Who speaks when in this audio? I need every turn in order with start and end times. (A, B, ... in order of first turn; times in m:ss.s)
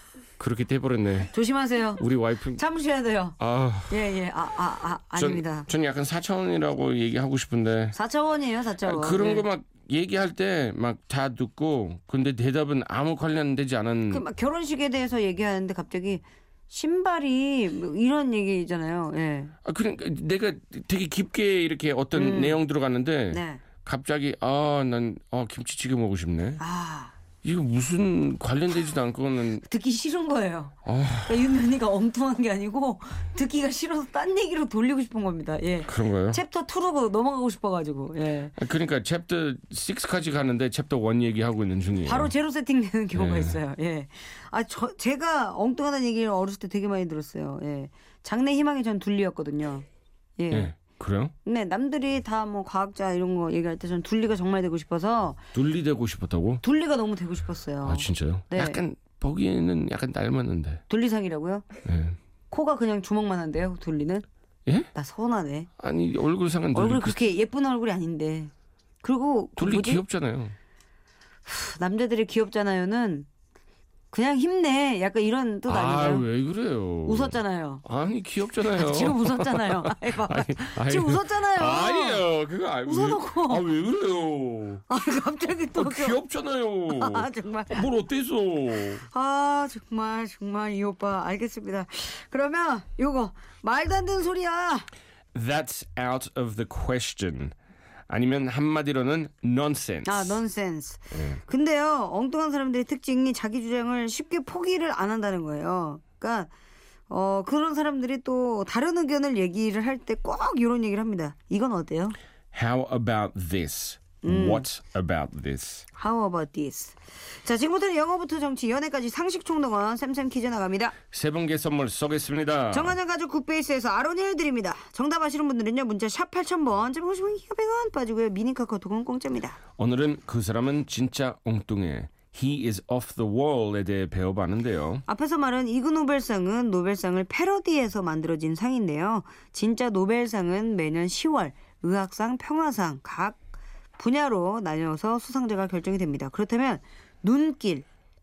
0:00.4-0:01.3 A
0:01.3-0:02.0 B
0:02.0-0:02.6 A
0:02.6-0:03.4 B
0:03.4-0:04.1 A
0:03.9-0:05.7 B
0:05.2-0:08.0 A
0:08.0-0:09.4 B
0:08.8-0:14.2 A
0:14.1-0:19.5 B
0:19.6-0:26.6 A
0:22.2-0:22.6 B
0:23.3-0:23.6 B
0:26.6-0:27.2 B
0:27.4-0:29.6 A
0:29.6-0:38.6 B
0:30.8-0:31.5 A
0:35.8-0:36.4 A
0:38.6-0:42.3 A
0:42.0-0:49.8 B
0:43.2-0:43.6 A
0:50.4-0:50.8 B
0:50.5-0:51.3 A
0:51.4-0:55.4 B
0:55.5-0:56.6 A
0:56.6-0:58.8 B
0:57.8-1:00.8 A
1:00.9-1:01.7 B
1:01.8-1:02.2 A
1:02.5-1:04.2 B
1:04.7-1:04.9 A
1:04.9-1:05.7 B
1:05.8-1:07.2 A
1:06.7-1:08.5 B
1:09.0-1:10.0 B
1:09.6-1:10.6 A
1:11.5-1:13.3 B
1:14.1-1:16.3 B
1:15.7-1:24.9 A
1:17.0-1:17.8 B
1:18.7-1:22.2 B
1:22.8-1:23.7 B
1:24.9-1:26.2 B
1:25.7-1:29.1 A
1:26.9-1:27.9 B
1:29.1-1:34.9 B
1:35.3-1:37.6 A
1:38.1-1:40.4 A
1:40.0-1:46.5 B
1:47.1-1:52.2 B
1:52.5-1:55.9 A
1:54.2-1:54.7 B
1:56.0-2:01.0 B
2:01.1-2:03.0 A
2:02.7-2:09.6 B
2:09.8-2:15.0 A
2:15.1-2:23.4 B
2:24.0-2:27.9 B